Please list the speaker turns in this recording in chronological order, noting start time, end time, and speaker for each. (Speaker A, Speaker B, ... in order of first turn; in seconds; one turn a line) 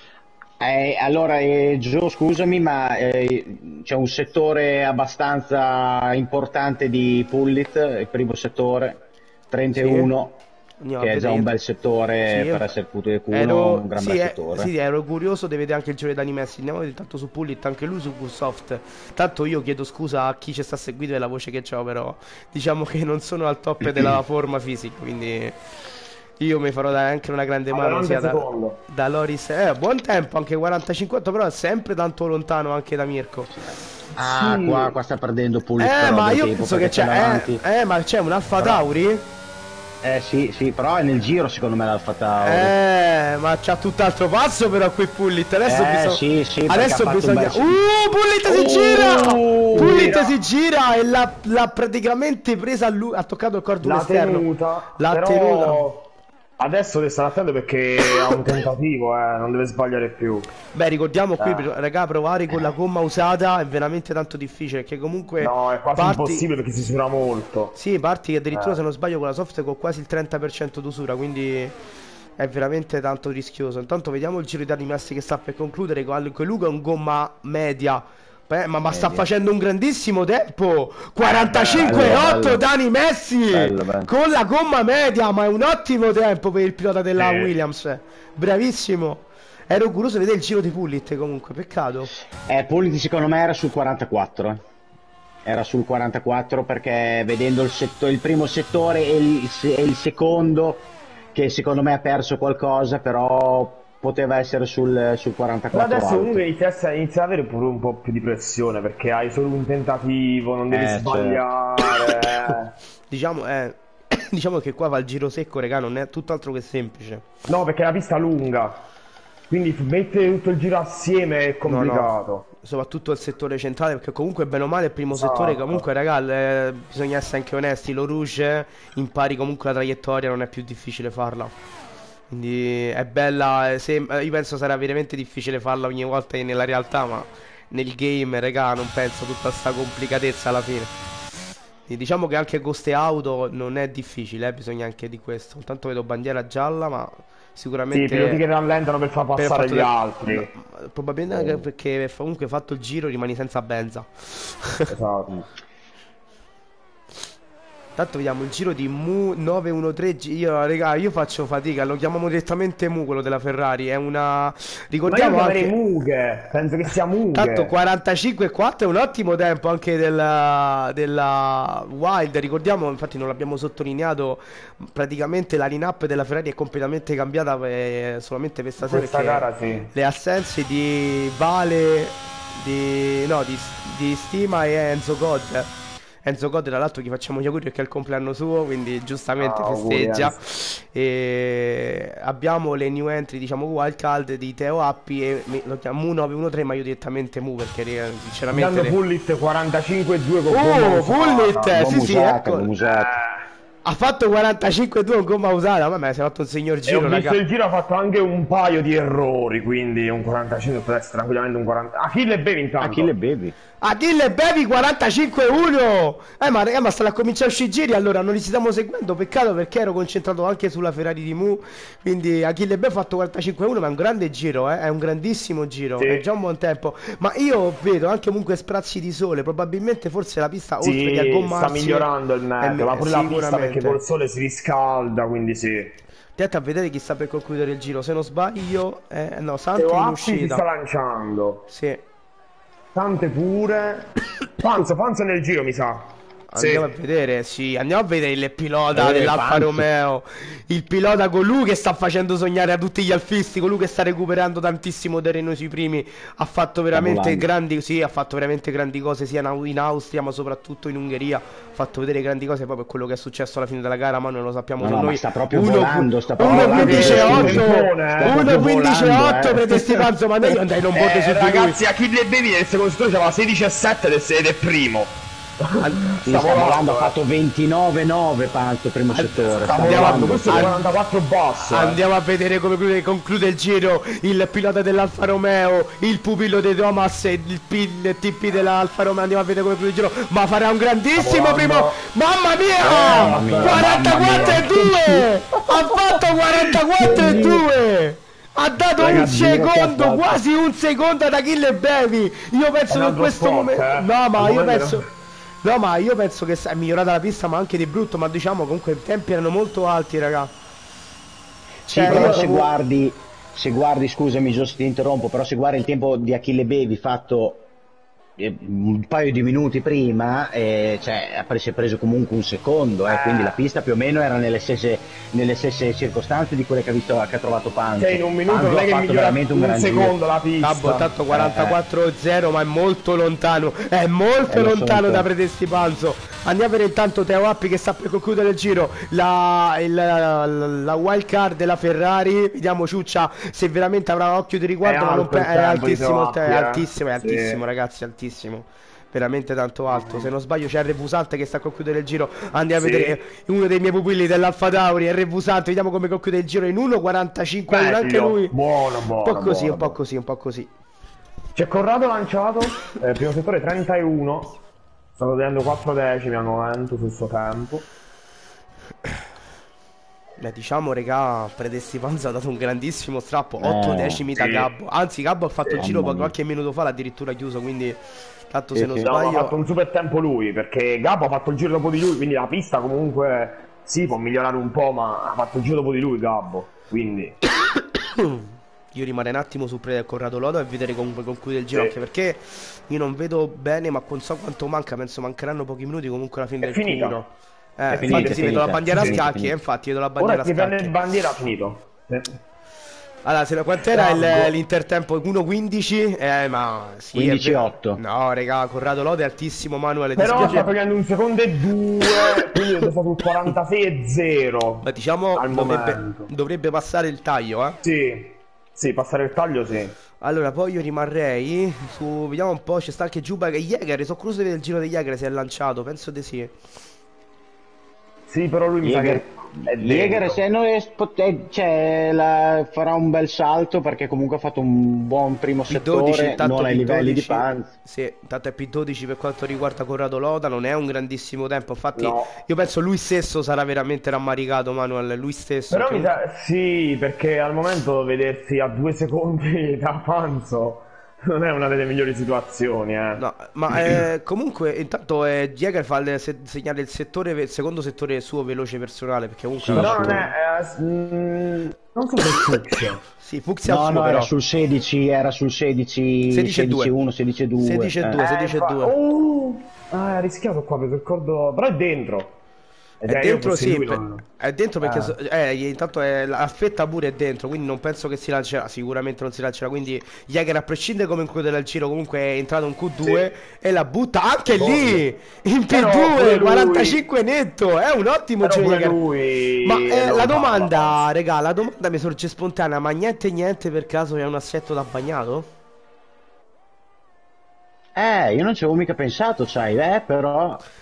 Speaker A: 0.6-10.4
Speaker B: 9.7-10.1
Speaker B: 10.8-11.5
Speaker A: 11.0-14.7
Speaker B: 12.3-12.7
Speaker B: 13.3-25.6
Speaker B: 26.4-33.6
Speaker C: 27.7-28.8
Speaker A: 34.1-37.6
Speaker C: 34.2-34.9
Speaker B: 35.8-39.3
Speaker A: 40.0-42.7
Speaker B: 42.4-55.9
Speaker A: 45.6-47.8
Speaker C: 48.5-50.3
Speaker A: 49.7-50.1
Speaker C: 53.8-56.0
Speaker C: 56.6-60.5
Speaker B: 60.7-66.5
Speaker C: 61.4-61.7
Speaker C: 65.4-67.8
Speaker B: 67.7-71.8
Speaker C: 68.5-68.8
Speaker B: 72.4-92.1
Speaker A: 78.9-79.2
Speaker C: 81.2-82.1
Speaker A: 81.8-82.6
Speaker A: 83.5-84.1
Speaker C: 87.2-87.5
Speaker A: 92.5-94.6
Speaker A: 95.4-106.4
Speaker C: 105.7-112.7
Speaker A: 110.7-111.4
Speaker B: 113.1-117.2
Speaker C: 117.5-118.8
Speaker C: 119.5-122.5
Speaker B: 121.7-131.5
Speaker C: 125.1-125.8
Speaker B: 132.3-140.9
Speaker B: 141.9-148.4
Speaker C: 147.9-150.5
Speaker B: 149.3-154.9
Speaker C: 154.9-155.3
Speaker B: 157.9-165.7
Speaker C: 165.1-167.7
Speaker B: 167.3-185.7
Speaker C: 178.8-179.9
Speaker B: 186.2-198.9
Speaker C: 189.4-190.4
Speaker C: 198.5-201.8
Speaker B: 200.5-202.7
Speaker A: 201.7-203.2
Speaker C: 202.8-203.4
Speaker B: 203.8-207.4
Speaker C: 206.9-213.1
Speaker A: 212.8-213.6
Speaker B: 213.8-232.1
Speaker C: 226.0-226.2
Speaker C: 230.8-236.0
Speaker B: 232.6-234.0
Speaker B: 236.4-240.6
Speaker C: 239.7-241.7
Speaker B: 241.7-242.0
Speaker C: 242.9-246.9
Speaker B: 246.5-271.8
Speaker A: 248.9-249.9
Speaker A: 256.9-257.5
Speaker A: 264.8-270.1
Speaker C: 266.4-268.4
Speaker C: 270.9-277.1
Speaker B: 275.8-276.4
Speaker A: 276.2-280.7
Speaker B: 279.1-280.9
Speaker C: 279.6-282.0
Speaker B: 281.7-305.1
Speaker C: 291.2-292.0
Speaker A: 292.8-294.7
Speaker C: 292.8-295.2
Speaker C: 297.0-297.6
Speaker C: 299.0-300.4
Speaker C: 302.9-305.0
Speaker B: 305.6-310.5
Speaker B: 311.9-312.7
Speaker A: 311.9-317.7
Speaker C: 312.0-312.5
Speaker A: 318.4-330.1
Speaker C: 323.1-323.6
Speaker C: 328.0-331.1
Speaker B: 330.6-358.6
Speaker A: 331.3-331.8
Speaker A: 334.5-335.3
Speaker C: 344.8-347.6
Speaker C: 349.9-350.3
Speaker C: 352.8-353.2
Speaker C: 357.7-360.0
Speaker B: 359.2-360.7
Speaker C: 361.5-364.6
Speaker C: 365.1-367.9
Speaker B: 370.4-379.6
Speaker A: 373.6-374.2
Speaker C: 374.4-374.7
Speaker A: 375.8-376.3
Speaker A: 378.7-379.1
Speaker C: 379.0-387.4
Speaker B: 388.1-400.9
Speaker C: 396.6-397.2
Speaker A: 397.9-399.6
Speaker C: 397.9-399.2
Speaker C: 400.2-402.4
Speaker B: 403.2-410.7
Speaker C: 403.9-404.6
Speaker A: 407.1-408.0
Speaker C: 410.2-416.3
Speaker B: 412.1-412.7
Speaker B: 414.8-417.8
Speaker C: 417.8-420.0
Speaker B: 420.2-426.5
Speaker C: 428.3-430.4
Speaker A: 428.8-437.7
Speaker B: 435.7-446.1
Speaker C: 441.9-442.3
Speaker C: 445.7-453.2
Speaker B: 453.1-460.3
Speaker A: 459.6-460.3
Speaker C: 459.7-463.0
Speaker B: 463.2-464.3
Speaker A: 463.6-468.2
Speaker B: 466.3-466.9
Speaker B: 467.6-468.9
Speaker C: 468.1-472.4
Speaker C: 473.0-474.2
Speaker B: 473.1-489.0
Speaker C: 474.8-475.1
Speaker C: 483.0-483.3
Speaker C: 484.5-485.0
Speaker C: 485.7-487.0
Speaker C: 488.4-491.0
Speaker B: 489.6-495.5
Speaker A: 497.9-500.6